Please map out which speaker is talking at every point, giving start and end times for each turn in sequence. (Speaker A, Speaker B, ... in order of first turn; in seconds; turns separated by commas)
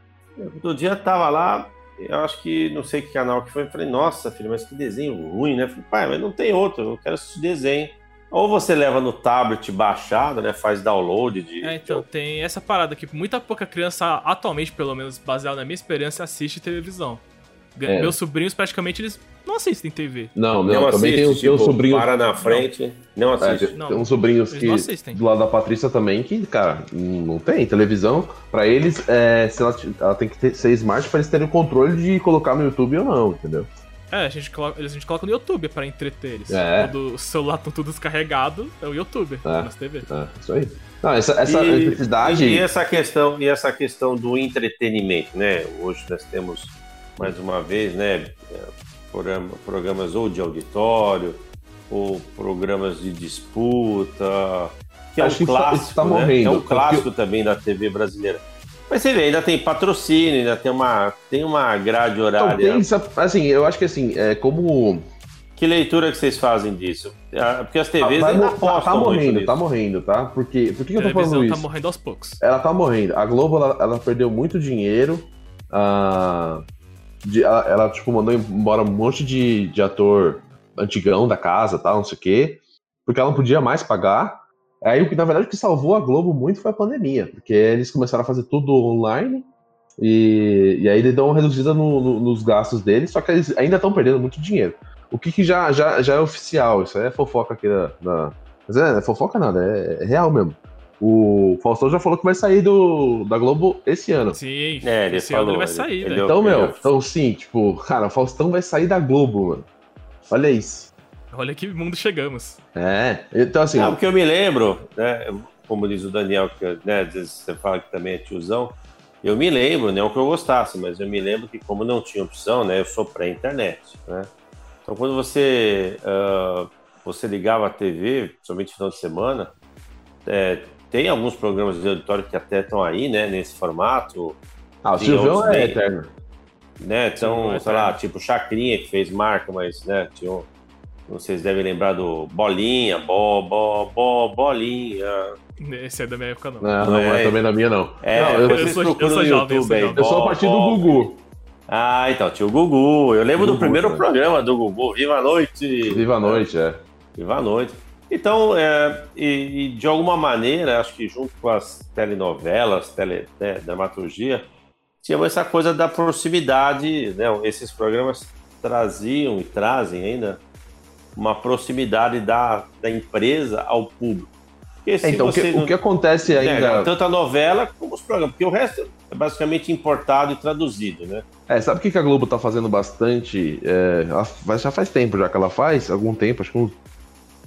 Speaker A: 0.4-12.0, Speaker B: 11.6-17.2, Speaker B: 17.8-20.3, Speaker C: 17.9-18.2, Speaker C: 20.3-22.1, Speaker A: 20.7-23.8, Speaker B: 22.3-22.7, Speaker C: 23.4-33.7, Speaker B: 23.8-25.2, Speaker B: 34.1-40.1, Speaker C: 36.5-36.9, Speaker C: 39.4-42.6, Speaker A: 41.4-62.9, Speaker C: 55.2-57.1, Speaker C: 62.4-65.1, Speaker A: 65.6-69.6, Speaker C: 68.0-71.7, Speaker B: 71.0-72.4, Speaker C: 72.4-76.6, Speaker C: 77.2-104.4, Speaker B: 104.3-106.3, Speaker A: 104.8-107.0, Speaker C: 106.2-109.7, Speaker C: 110.3-110.9, Speaker B: 111.3-112.6, Speaker C: 112.7-114.0, Speaker A: 113.7-124.3, Speaker A: 124.8-129.5, Speaker A: 130.2-134.4, Speaker C: 134.8-136.1, Speaker A: 134.9-135.8, Speaker A: 136.8-140.5, Speaker B: 137.2-138.0, Speaker A: 141.1-145.3, Speaker B: 145.6-146.7, Speaker C: 146.6-148.6, Speaker A: 146.8-147.4, Speaker A: 148.0-151.1, Speaker B: 148.3-150.0, Speaker C: 149.9-151.2, Speaker A: 151.7-156.4, Speaker C: 153.4-154.1, Speaker C: 155.9-156.8, Speaker A: 157.2-164.5, Speaker A: 165.0-170.4, Speaker A: 171.1-174.3, Speaker A: 174.8-181.2, Speaker C: 175.0-176.9, Speaker C: 181.5-186.8